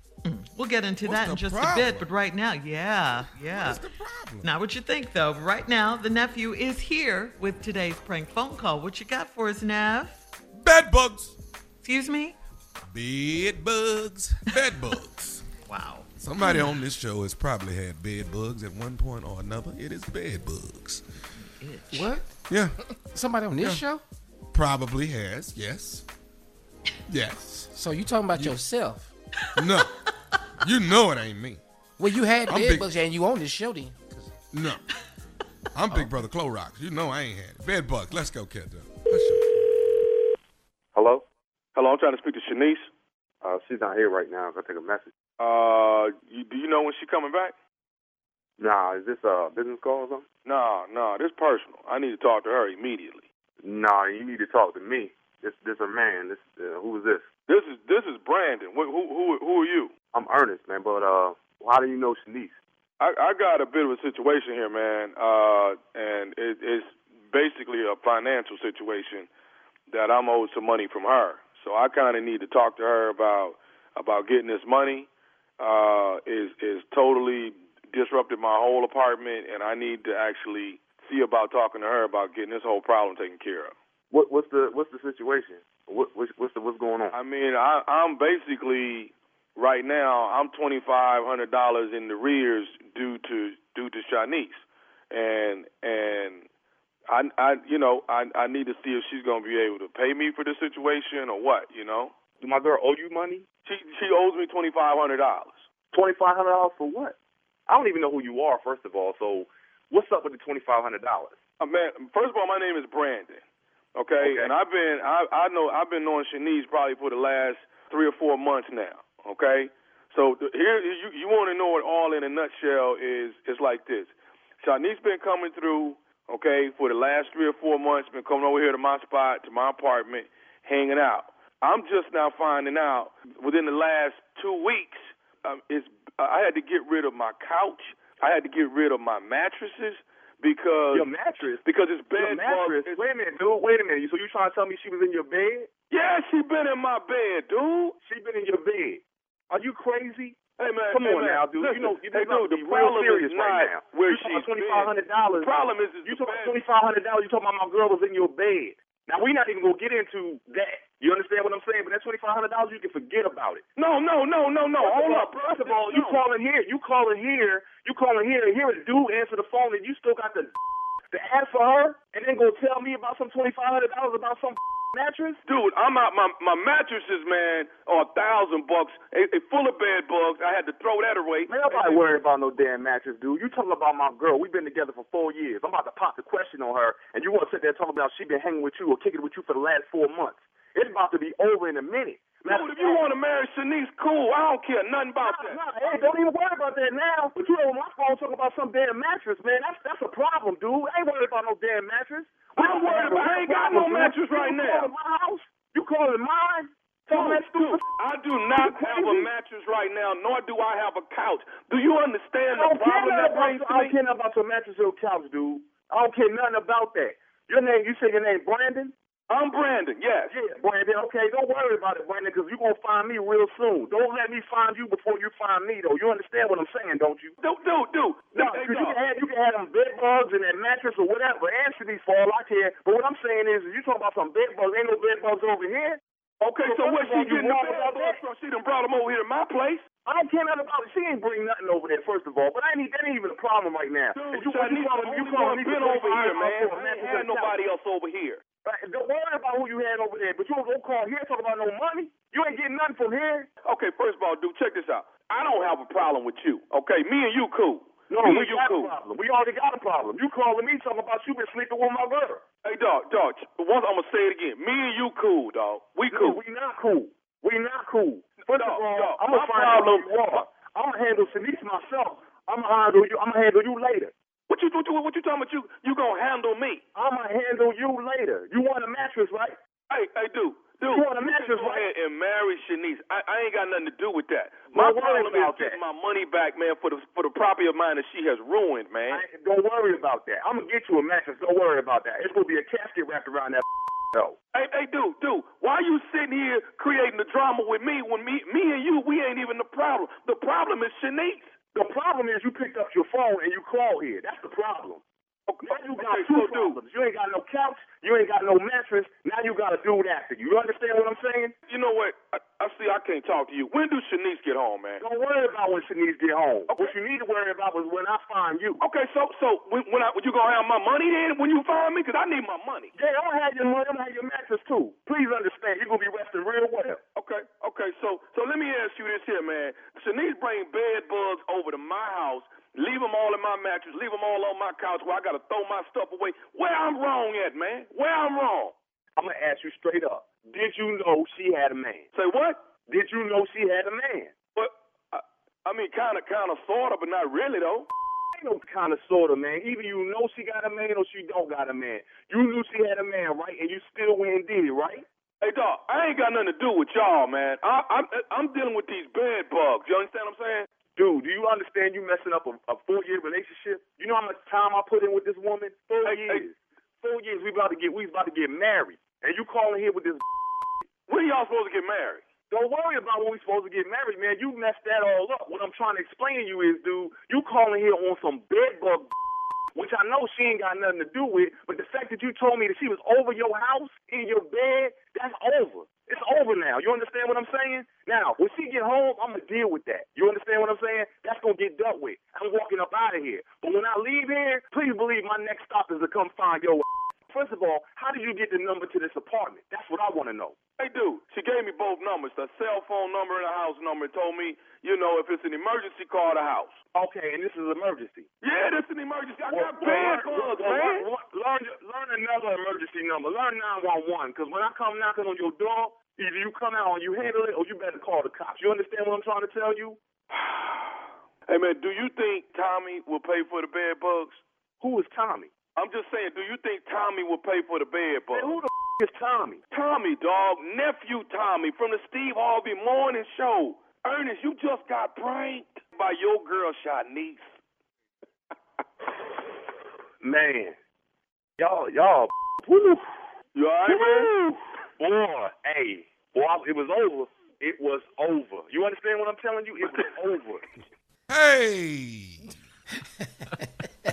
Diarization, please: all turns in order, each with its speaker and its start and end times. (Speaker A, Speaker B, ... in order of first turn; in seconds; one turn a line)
Speaker A: 0.2-3.8
Speaker B: 1.0-2.1
Speaker B: 3.5-4.5
Speaker A: 4.4-10.2
Speaker B: 10.5-11.4
Speaker A: 11.8-12.4
Speaker B: 12.9-15.4
Speaker A: 15.6-16.7
Speaker B: 16.2-21.0
Speaker A: 21.4-22.1
Speaker C: 21.9-22.4
Speaker B: 22.4-22.7
Speaker C: 22.9-24.0
Speaker B: 23.6-23.9
Speaker B: 24.5-26.1
Speaker B: 27.1-27.7
Speaker C: 27.7-29.1
Speaker B: 28.3-28.6
Speaker B: 29.6-29.9
Speaker B: 30.6-31.6
Speaker C: 32.0-34.4
Speaker B: 32.5-32.9
Speaker B: 34.5-34.8
Speaker B: 35.7-39.8
Speaker D: 40.9-41.2
Speaker E: 41.7-42.9
Speaker D: 43.4-45.1
Speaker E: 45.4-47.5
Speaker D: 48.6-50.2
Speaker E: 50.4-53.2
Speaker D: 53.6-57.2
Speaker E: 57.5-59.9
Speaker D: 60.1-62.6
Speaker E: 63.0-69.3
Speaker E: 69.9-75.1
Speaker E: 75.6-83.7
Speaker D: 84.1-87.2
Speaker E: 87.1-96.5
Speaker E: 97.1-102.1
Speaker D: 102.4-103.4
Speaker E: 103.6-105.6
Speaker D: 105.9-107.2
Speaker D: 107.7-111.3
Speaker E: 111.6-113.4
Speaker E: 114.0-141.1
Speaker D: 114.2-114.5
Speaker D: 140.9-141.6
Speaker E: 141.6-143.0
Speaker D: 142.1-145.7
Speaker E: 145.9-147.9
Speaker D: 148.0-150.4
Speaker E: 150.6-156.6
Speaker D: 150.9-163.6
Speaker E: 163.8-166.2
Speaker D: 164.8-170.5
Speaker D: 171.1-175.4
Speaker E: 175.4-182.0
Speaker D: 181.5-193.1
Speaker E: 192.5-196.1
Speaker D: 195.2-207.8
Speaker E: 202.5-204.9
Speaker E: 207.1-213.9
Speaker D: 208.5-209.3
Speaker D: 212.5-218.9
Speaker E: 219.3-220.3
Speaker D: 220.3-227.3
Speaker E: 227.4-229.0
Speaker D: 228.3-236.0
Speaker E: 236.4-239.8
Speaker D: 236.6-238.2
Speaker D: 240.0-247.6
Speaker E: 244.1-248.4
Speaker D: 248.6-253.5
Speaker E: 253.6-258.9
Speaker D: 258.1-262.4
Speaker E: 262.6-266.4
Speaker D: 266.1-274.1
Speaker E: 268.5-270.4
Speaker E: 274.5-276.8
Speaker D: 276.9-279.6
Speaker E: 279.9-289.2
Speaker D: 280.9-281.9
Speaker D: 284.7-285.8
Speaker D: 289.1-294.4
Speaker E: 294.5-301.5
Speaker D: 301.7-305.0
Speaker E: 305.5-306.8
Speaker D: 305.6-311.5
Speaker E: 311.7-315.0
Speaker D: 315.0-318.8
Speaker E: 318.8-322.9
Speaker D: 322.9-327.0
Speaker E: 327.1-338.7
Speaker D: 339.1-342.1
Speaker E: 342.1-342.6
Speaker D: 342.9-344.3
Speaker E: 344.5-347.9
Speaker D: 348.3-355.0
Speaker E: 355.4-360.7
Speaker D: 360.9-370.2
Speaker E: 366.0-366.4
Speaker E: 371.1-372.2
Speaker D: 372.5-379.1
Speaker D: 379.7-400.6
Speaker E: 400.8-406.7
Speaker D: 406.9-408.3
Speaker E: 408.4-411.1
Speaker D: 409.5-420.0
Speaker E: 420.3-421.0
Speaker E: 421.5-424.4
Speaker D: 424.8-425.5
Speaker E: 425.8-428.6
Speaker D: 428.3-429.6
Speaker E: 429.7-437.6
Speaker D: 440.2-440.8
Speaker D: 441.6-443.0
Speaker E: 443.5-444.3
Speaker D: 443.9-450.6
Speaker B: 451.3-452.5